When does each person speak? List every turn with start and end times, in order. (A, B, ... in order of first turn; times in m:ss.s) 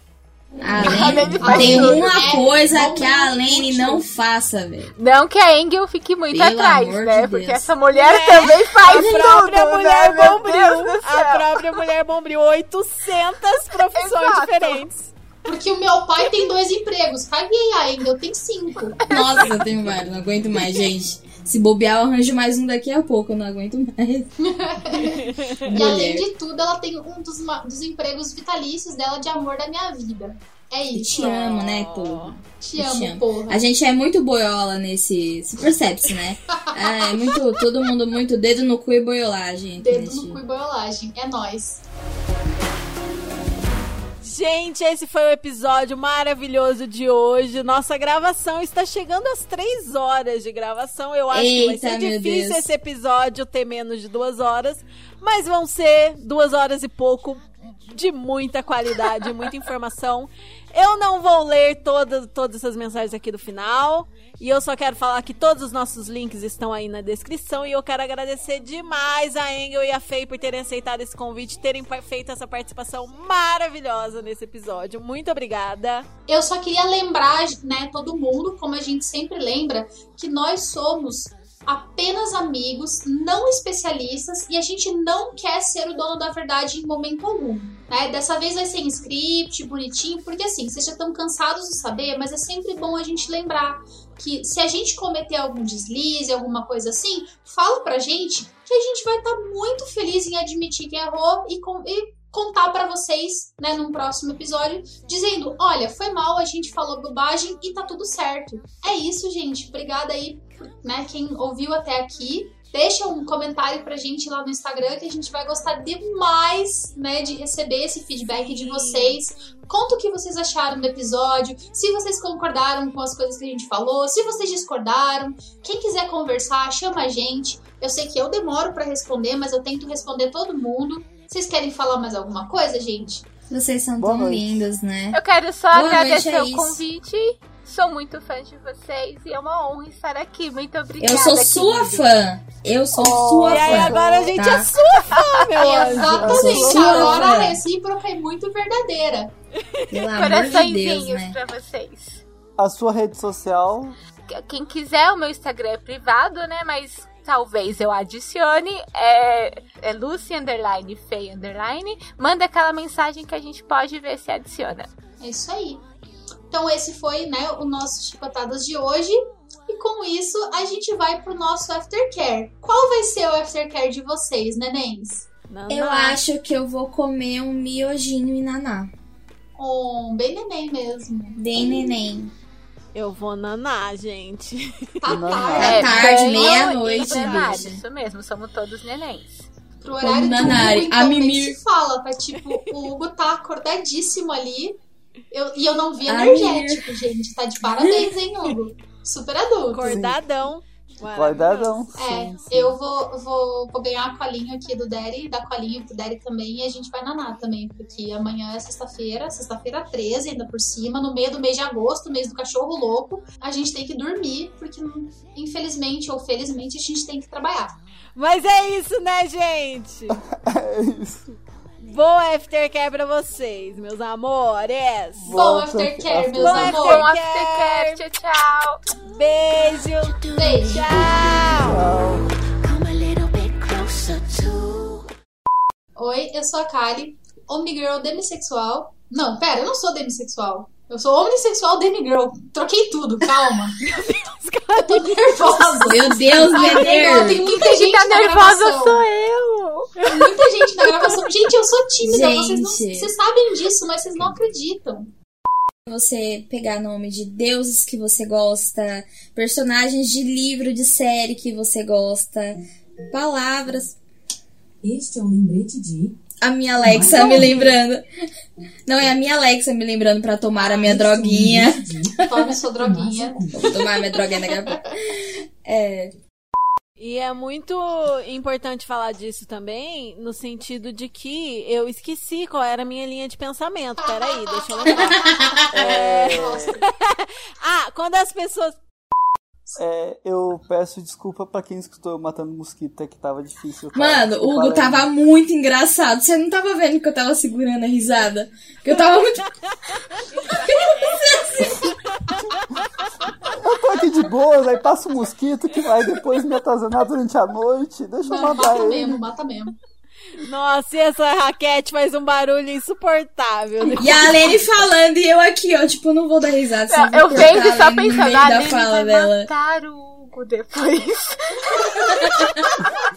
0:00.6-0:04.9 A
0:00.8-0:02.3 B
0:00.9-0:04.0 C
0:05.0-0:11.8 B
0:06.3-0:07.7 A
0:07.9-0:15.1 D
0:08.9-0:09.2 A
0:13.9-0:14.8 B
0:15.4-0:19.2 C
0:19.1-0:24.3 A
0:24.4-0:31.4 C
0:25.0-0:25.7 D
0:25.6-0:26.3 A
0:30.9-0:40.4 A
0:31.1-0:32.4 D
0:32.6-0:33.7 C
0:36.8-0:37.6 C
0:39.8-0:41.8 C
0:44.2-1:16.1 D
0:51.3-0:52.7 A
1:16.3-2:13.2 C
1:58.3-1:59.2 D
2:13.5-2:16.8 A
2:14.0-2:14.7 E
2:15.1-2:22.1 B
2:21.0-2:24.7 A
2:22.9-2:24.3 E
2:23.4-2:27.1 D
2:25.6-2:29.3 C
2:26.0-2:27.3 E
2:26.2-2:27.6 A
2:29.6-2:30.0 D
2:29.9-2:31.4 A
2:30.1-2:32.2 B
2:32.6-2:34.0 E
2:34.3-2:44.9 B
2:45.2-2:45.8 C
2:46.5-2:55.2 C
2:55.5-2:56.2 D
2:55.7-2:58.9 A
2:59.6-3:01.9 C
3:01.4-3:02.3 A
3:02.9-3:05.0 D
3:05.0-3:06.9 C
3:05.1-3:06.0 E
3:05.6-3:07.8 A
3:05.6-3:09.5 B
3:06.9-3:07.6 D
3:09.8-3:14.8 C
3:10.0-3:11.6 A
3:15.3-3:20.0 C
3:16.0-3:17.0 A
3:17.6-3:18.1 A
3:19.7-3:21.8 D
3:19.8-3:20.2 E
3:21.1-3:22.8 E
3:21.9-3:37.7 C
3:38.2-3:40.2 D
3:40.1-3:41.4 E
3:41.8-3:45.4 D
3:45.2-3:46.8 E
3:45.3-3:47.1 C
3:46.4-3:48.0 D
3:46.5-3:48.8 B
3:49.0-3:51.8 D
3:49.3-3:55.1 F
3:50.4-3:51.0 C
3:51.0-3:52.2 E
3:56.0-4:04.0 C
4:03.8-4:07.2 D
4:04.8-4:09.0 C
4:05.8-4:07.4 A
4:07.2-4:10.0 B
4:10.0-4:10.3 D
4:10.0-4:15.1 C
4:12.0-4:13.1 A
4:15.8-4:24.0 A
4:24.8-4:26.1 G
4:26.4-4:28.0 A
4:26.8-4:27.7 G
4:28.9-4:32.6 A
4:30.6-4:30.9 D
4:30.8-4:33.6 G
4:32.2-4:34.8 C
4:33.5-4:36.1 A
4:37.0-4:48.8 D
4:44.3-4:46.8 C
4:45.0-4:45.5 A
4:45.7-4:46.8 E
4:49.8-4:55.0 E
4:53.9-4:59.4 A
4:59.7-5:03.5 D
5:00.6-5:01.7 A
5:01.6-5:01.9 E
5:03.4-5:09.2 E
5:08.3-5:09.8 C
5:10.4-5:14.4 D
5:14.0-5:19.5 A
5:16.9-5:22.5 B
5:22.2-5:22.5 A